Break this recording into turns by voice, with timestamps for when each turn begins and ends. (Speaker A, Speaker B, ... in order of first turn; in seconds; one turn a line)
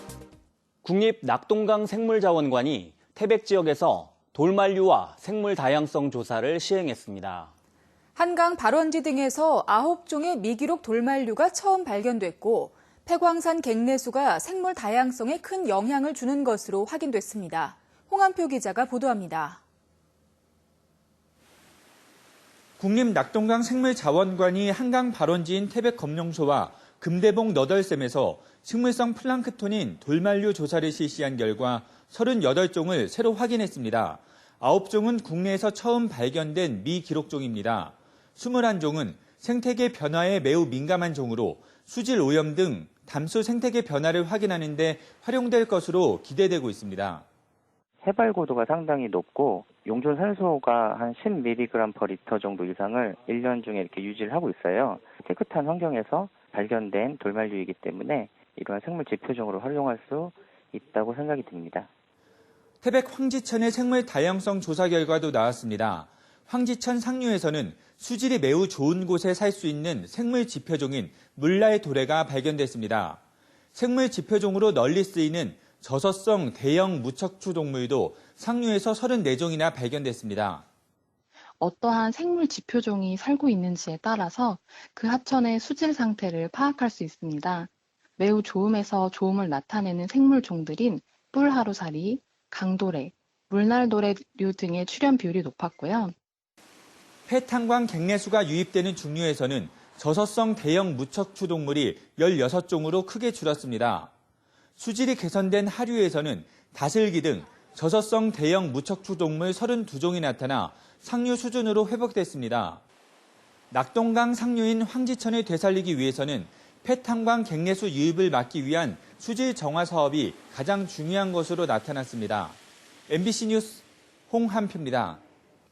Speaker A: 0.8-7.5
Speaker B: 8.2-19.6
Speaker C: 22.8-47.2
Speaker D: 48.0-61.9
Speaker C: 62.8-73.2
Speaker C: 73.8-80.6
Speaker E: 81.6-96.2
Speaker C: 97.3-104.1
Speaker C: 104.8-112.8
Speaker C: 113.7-122.6
Speaker C: 123.1-125.2